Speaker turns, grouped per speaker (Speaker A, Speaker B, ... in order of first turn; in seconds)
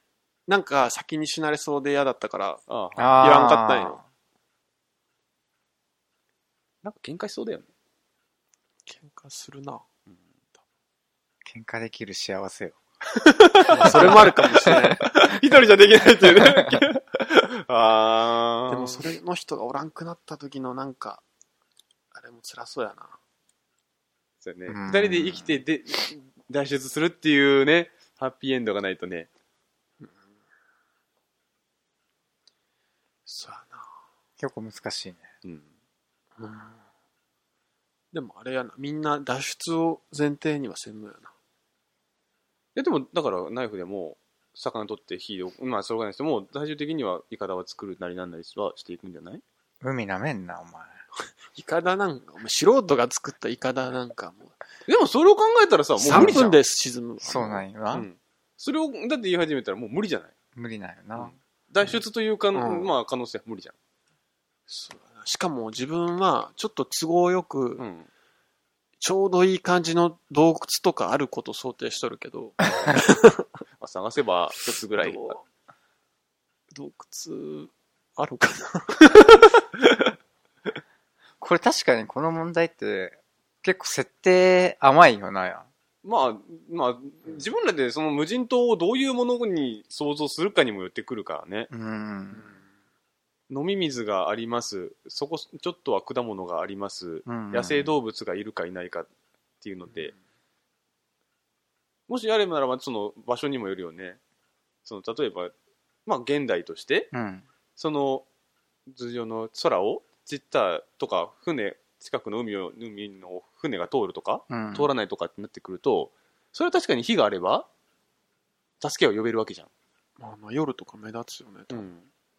Speaker A: 0.5-2.6, 3.2-4.0, 8.9-9.8, 13.7-15.0, 18.7-21.2, 22.1-23.2, 33.3-33.9, 36.4-36.8, 38.1-41.3, 51.5-54.6, 56.0-57.6, 62.5-62.9, 64.7-67.8, 69.0-73.5, 75.0-75.4, 76.7-79.2, 120.2-121.9
Speaker B: 2.7-3.3, 6.8-7.7, 13.1-19.0, 24.4-29.3, 42.8-49.4, 54.9-56.6, 57.9-60.3, 61.2-63.8, 67.8-68.1, 73.8-75.4, 79.3-80.1, 86.0-91.7, 93.5-99.1, 99.6-100.2, 102.1-104.2, 104.8-105.5, 106.1-107.1, 107.8-108.2, 108.9-117.7, 118.8-119.7, 121.7-122.0
Speaker C: 3.0-4.0, 11.4-12.8, 13.8-15.0, 16.3-16.9, 24.7-25.5, 34.4-35.3, 49.8-50.9, 56.1-56.5, 57.2-58.1, 60.5-61.4, 81.4-85.7, 91.7-92.5, 97.3-97.9, 107.1-107.5, 114.5-114.9